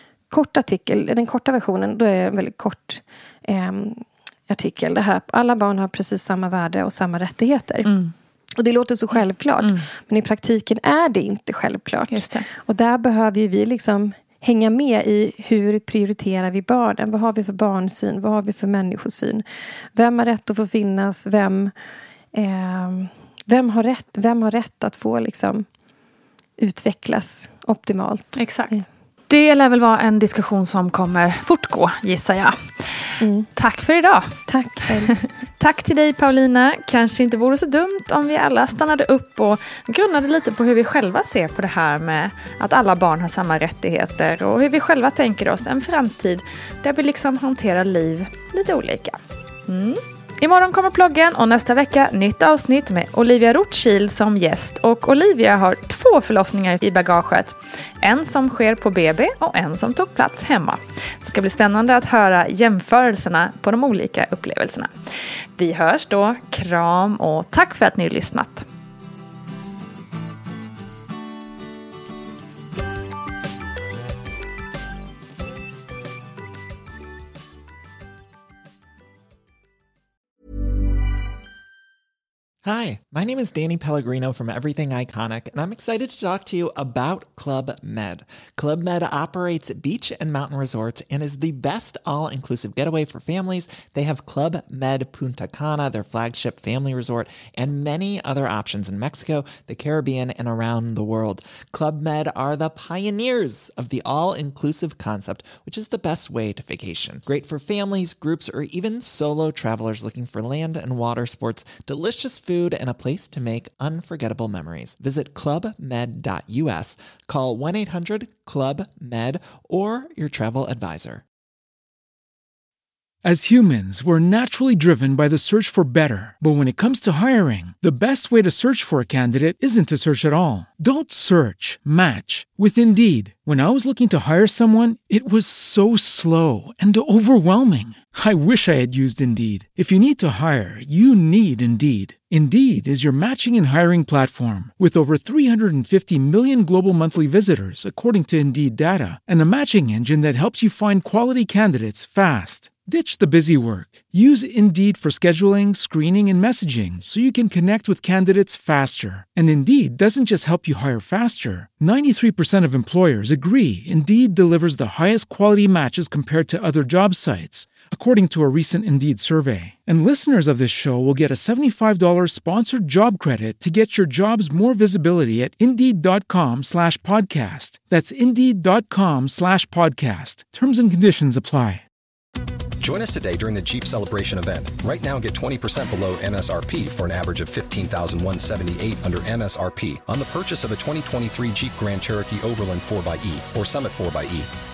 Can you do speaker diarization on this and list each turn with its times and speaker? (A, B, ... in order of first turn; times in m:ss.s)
0:00.3-0:07.9 A
0:07.8-0:08.1 B
0:08.6-0:19.4 A
0:09.2-0:09.8 B
0:12.1-0:12.5 B
0:20.0-0:21.7 A
0:22.3-0:25.7 A
0:26.6-0:28.9 A
0:28.4-0:34.5 B
0:33.2-0:33.5 A
0:34.5-0:35.2 A
0:35.2-1:04.9 B
1:05.6-1:08.7 B
1:22.6-2:01.2 C
2:03.2-3:01.8 D
3:02.8-3:14.5 E